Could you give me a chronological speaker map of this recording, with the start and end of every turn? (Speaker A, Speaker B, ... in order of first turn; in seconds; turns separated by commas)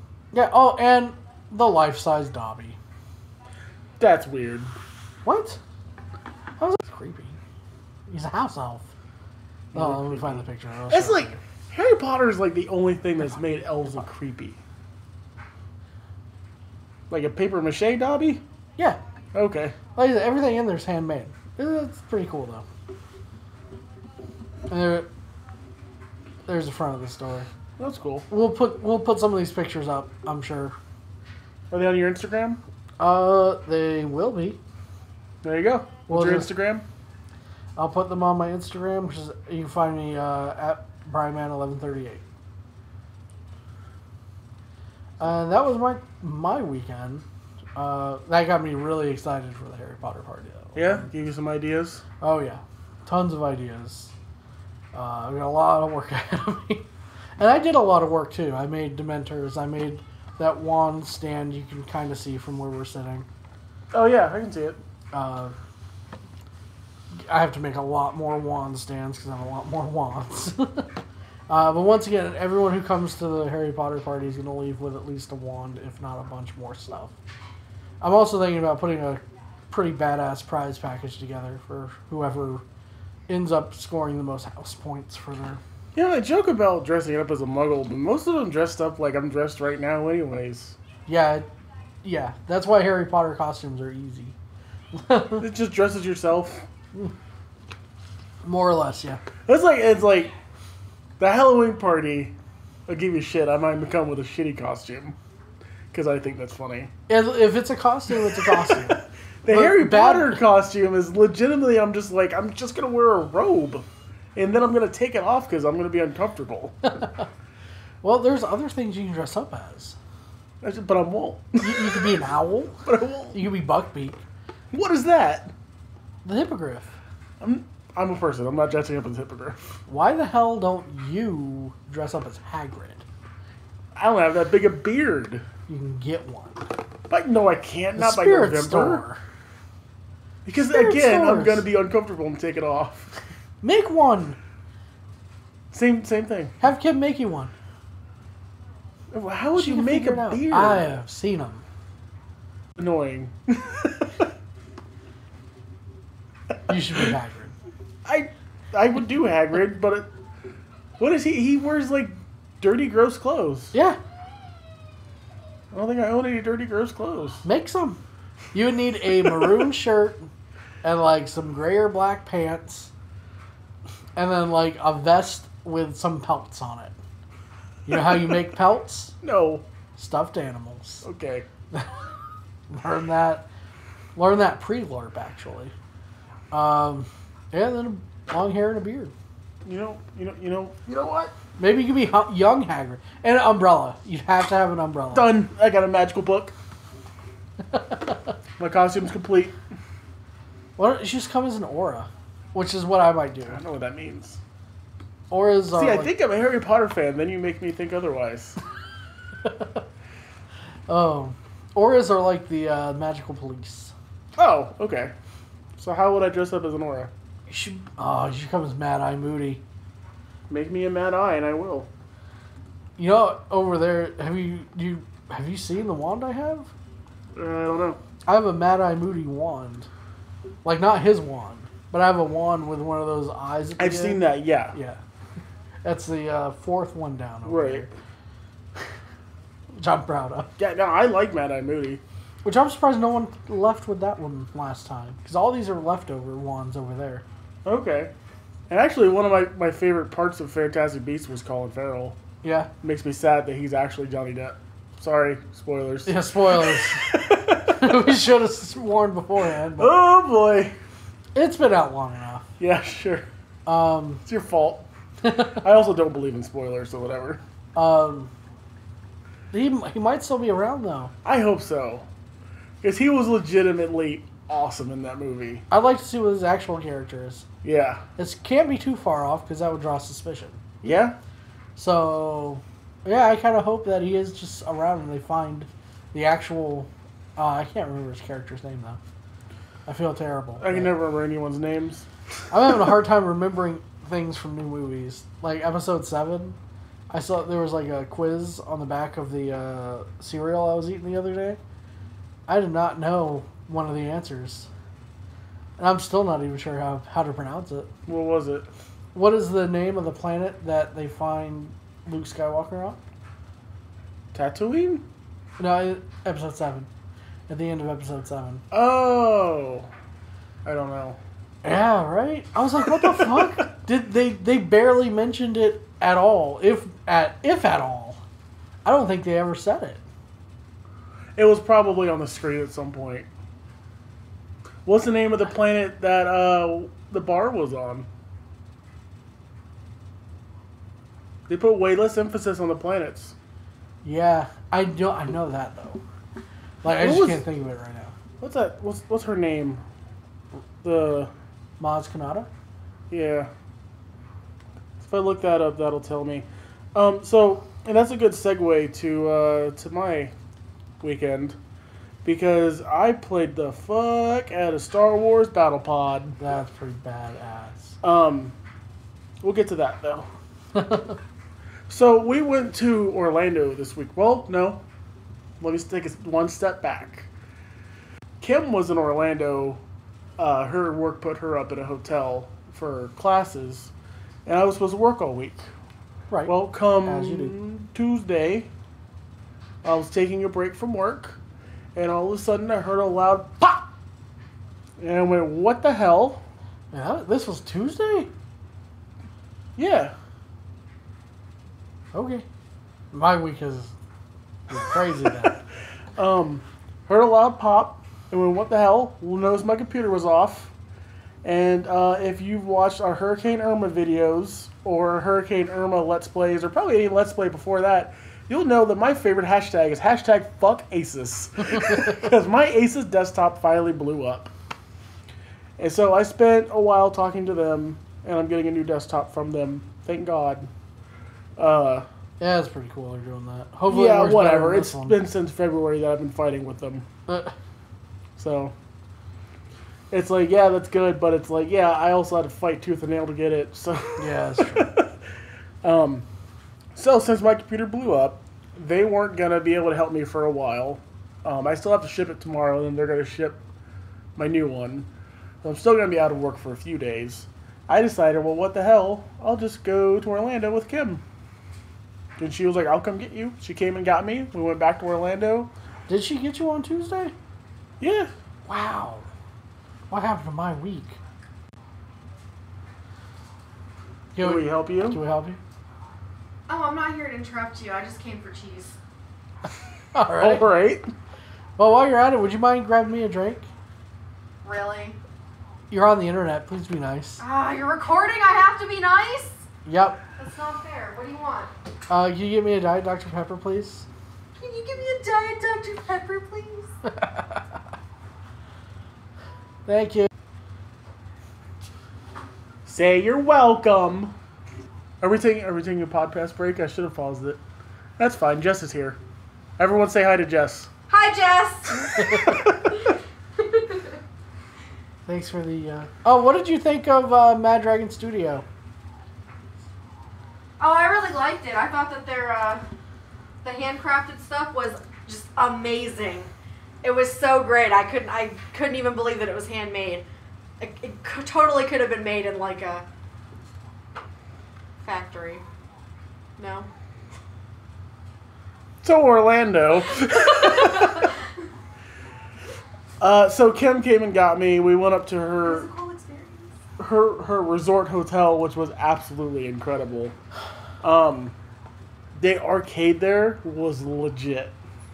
Speaker A: 0.3-2.8, Speaker B: 4.0-4.7, Speaker A: 5.2-5.6, Speaker A: 6.6-7.4, Speaker A: 8.1-8.9, Speaker B: 9.7-14.6, Speaker A: 9.8-11.3, Speaker B: 17.1-18.4, Speaker B: 19.3-19.8, Speaker A: 20.0-22.6, Speaker A: 24.7-25.1, Speaker A: 26.5-27.5, Speaker B: 27.8-28.3, Speaker A: 28.3-30.8, Speaker B: 31.7-32.6, Speaker A: 33.0-34.6, Speaker B: 35.4-36.9, Speaker A: 36.1-36.5, Speaker A: 37.8-42.2, Speaker A: 45.2-47.2, Speaker A: 47.8-51.1, Speaker B: 50.8-52.0, Speaker A: 52.2-54.1, Speaker A: 54.9-56.9, Speaker A: 57.4-63.3, Speaker B: 63.9-64.8, Speaker A: 65.1-65.6, Speaker A: 67.3-71.0, Speaker A: 71.5-77.2, Speaker A: 78.0-82.6, Speaker A: 83.3-85.6, Speaker B: 86.0-90.8, Speaker A: 91.1-91.5, Speaker A: 92.0-94.4, Speaker A: 95.0-95.5, Speaker B: 95.4-96.7, Speaker A: 98.4-99.2, Speaker B: 99.5-100.3, Speaker B: 101.2-102.3, Speaker B: 102.9-105.2, Speaker B: 105.9-106.9, Speaker A: 107.1-110.4, Speaker B: 108.3-116.9, Speaker A: 116.9-117.2, Speaker A: 118.0-120.0, Speaker B: 120.6-122.1, Speaker A: 121.6-124.2, Speaker B: 122.8-123.3, Speaker B: 124.7-125.5, Speaker A: 126.2-127.0, Speaker B: 127.4-129.6, Speaker A: 129.9-133.1, Speaker B: 134.0-135.4, Speaker A: 135.7-136.7, Speaker B: 137.1-139.0, Speaker A: 138.0-139.2, Speaker B: 140.4-143.2, Speaker A: 140.6-141.7, Speaker A: 143.6-144.4, Speaker B: 145.7-146.6, Speaker A: 146.6-147.5, Speaker B: 149.1-151.0, Speaker A: 149.6-151.6, Speaker B: 152.8-154.3, Speaker A: 156.7-157.5, Speaker B: 158.1-160.1, Speaker B: 161.0-163.7, Speaker A: 163.7-164.0, Speaker B: 165.7-167.4, Speaker A: 167.4-168.0, Speaker A: 168.5-170.3, Speaker A: 170.8-172.9, Speaker A: 174.2-176.9, Speaker A: 177.9-179.2, Speaker B: 177.9-178.4, Speaker B: 179.2-179.6, Speaker A: 180.0-181.1, Speaker B: 181.0-181.5, Speaker A: 182.7-183.5, Speaker A: 184.2-185.7, Speaker A: 186.5-189.1, Speaker B: 189.6-191.3, Speaker A: 191.6-195.3, Speaker B: 195.1-196.6, Speaker A: 197.7-198.2, Speaker B: 198.6-199.6, Speaker A: 200.8-203.6, Speaker B: 203.5-204.4, Speaker A: 205.3-206.1, Speaker B: 205.8-208.6, Speaker A: 209.4-209.8, Speaker A: 210.9-213.9, Speaker B: 214.4-215.1, Speaker B: 215.8-217.1, Speaker A: 217.5-219.6, Speaker B: 220.5-221.9, Speaker A: 223.0-226.7, Speaker B: 227.3-228.0, Speaker A: 228.3-229.9, Speaker A: 230.6-235.0, Speaker B: 233.8-234.8, Speaker A: 235.8-237.9, Speaker B: 237.5-237.9, Speaker A: 239.7-240.6, Speaker B: 240.6-242.0, Speaker A: 242.4-247.2, Speaker B: 247.6-248.1, Speaker B: 248.7-252.2, Speaker A: 252.4-252.7, Speaker B: 252.8-258.2, Speaker A: 256.1-257.1, Speaker A: 257.7-259.9, Speaker B: 259.8-260.8, Speaker A: 261.4-262.5, Speaker B: 262.6-263.3, Speaker A: 263.7-264.2, Speaker B: 264.3-267.4, Speaker A: 265.2-265.6, Speaker A: 267.8-268.3, Speaker A: 269.5-271.1, Speaker B: 271.2-272.1, Speaker B: 272.8-275.6, Speaker A: 275.7-277.5, Speaker B: 277.6-278.0, Speaker A: 278.2-280.6, Speaker B: 280.8-281.1, Speaker A: 281.8-289.0, Speaker A: 289.9-290.9, Speaker B: 290.6-292.1, Speaker A: 292.5-296.6, Speaker A: 297.1-301.6, Speaker A: 302.5-304.7, Speaker A: 305.8-307.9, Speaker B: 308.1-308.7, Speaker A: 309.1-313.0, Speaker B: 314.3-315.0, Speaker A: 315.6-316.9, Speaker A: 317.5-318.6, Speaker B: 318.7-319.9, Speaker B: 320.6-321.2, Speaker A: 321.6-328.2, Speaker B: 323.0-323.6, Speaker A: 328.9-330.0, Speaker B: 331.4-333.3, Speaker B: 334.9-338.1, Speaker B: 341.5-343.4, Speaker A: 344.0-346.0, Speaker A: 346.8-348.1, Speaker B: 346.9-347.4, Speaker B: 348.4-349.8, Speaker B: 350.8-351.3, Speaker A: 351.8-352.5, Speaker B: 353.1-353.5, Speaker B: 355.0-360.3, Speaker B: 361.0-361.6, Speaker B: 362.2-366.4, Speaker A: 366.4-368.0, Speaker B: 368.0-368.6, Speaker B: 369.4-370.3, Speaker A: 370.7-371.2, Speaker B: 371.9-374.8, Speaker B: 375.6-377.3, Speaker B: 378.4-379.8, Speaker B: 380.4-383.9, Speaker B: 384.5-385.7, Speaker A: 386.3-387.6, Speaker B: 386.5-388.7, Speaker B: 389.8-391.4, Speaker B: 391.9-393.9, Speaker B: 395.0-396.4, Speaker A: 396.9-398.3, Speaker B: 399.8-400.1, Speaker A: 402.1-402.5, Speaker A: 403.1-403.9, Speaker A: 404.7-405.6, Speaker B: 406.1-410.7, Speaker B: 411.4-424.5, Speaker A: 421.8-422.1, Speaker B: 425.8-430.7, Speaker B: 431.6-432.1, Speaker A: 432.4-435.2, Speaker B: 433.9-437.1, Speaker A: 437.3-437.5, Speaker B: 438.4-438.7, Speaker B: 440.1-445.1, Speaker A: 444.2-444.9, Speaker B: 445.8-446.3, Speaker B: 446.9-453.6, Speaker B: 454.4-455.1, Speaker B: 455.6-461.2, Speaker B: 462.4-465.7, Speaker A: 466.1-467.3, Speaker B: 468.0-468.3, Speaker A: 468.7-469.3, Speaker A: 470.1-471.2, Speaker A: 474.4-475.6, Speaker B: 474.4-475.2, Speaker C: 476.7-479.0, Speaker A: 480.1-480.6, Speaker B: 480.3-481.1, Speaker A: 481.8-483.7, Speaker C: 484.6-485.2, Speaker A: 485.9-487.4, Speaker C: 487.4-489.7, Speaker A: 489.9-490.2, Speaker C: 490.4-491.7, Speaker A: 492.1-494.1, Speaker C: 494.6-496.9, Speaker A: 497.1-497.6, Speaker A: 499.9-500.3, Speaker B: 502.9-504.4, Speaker B: 505.2-507.6, Speaker B: 508.2-509.2, Speaker B: 509.8-510.9, Speaker C: 511.1-514.1, Speaker A: 512.2-512.6, Speaker A: 515.3-518.6, Speaker C: 520.8-522.9, Speaker C: 523.6-526.5, Speaker C: 527.0-530.2, Speaker C: 530.8-533.0, Speaker C: 535.0-535.6, Speaker C: 536.6-536.9, Speaker B: 539.0-541.4, Speaker C: 540.7-541.3, Speaker B: 543.2-545.9, Speaker C: 545.6-546.8, Speaker B: 547.0-550.4, Speaker B: 551.0-551.5, Speaker B: 552.4-554.8